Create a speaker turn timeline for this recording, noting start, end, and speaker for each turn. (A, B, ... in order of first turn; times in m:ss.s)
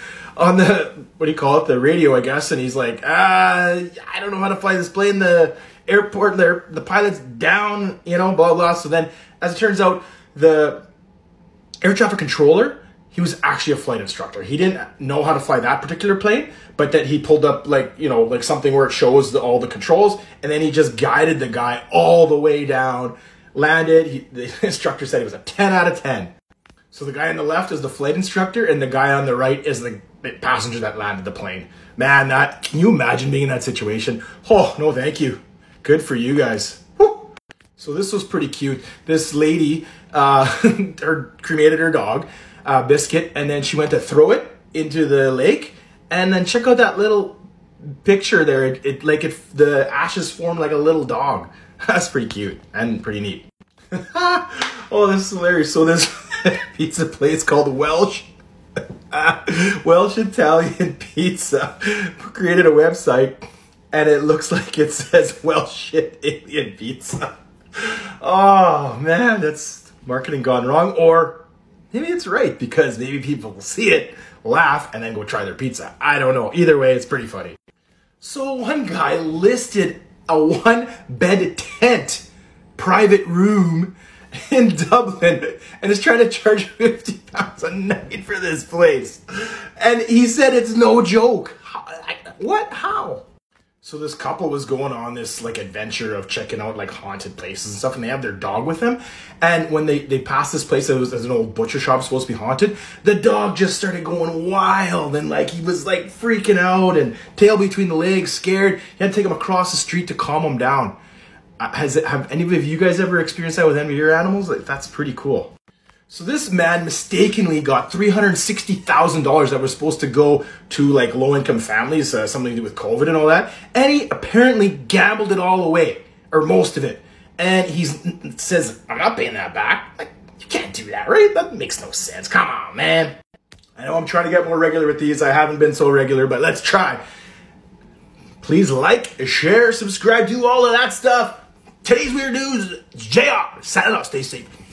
0:00.4-0:10.8 A
0:11.8-0:26.3 A
0:26.9-0:47.4 A
0:48.0-0:58.3 A
0:59.1-1:17.6 A
1:18.2-1:33.2 A
1:33.8-1:51.0 A
1:51.6-1:55.5 A
1:56.1-2:13.1 A
2:13.8-2:17.0 A
2:18.4-2:24.5 A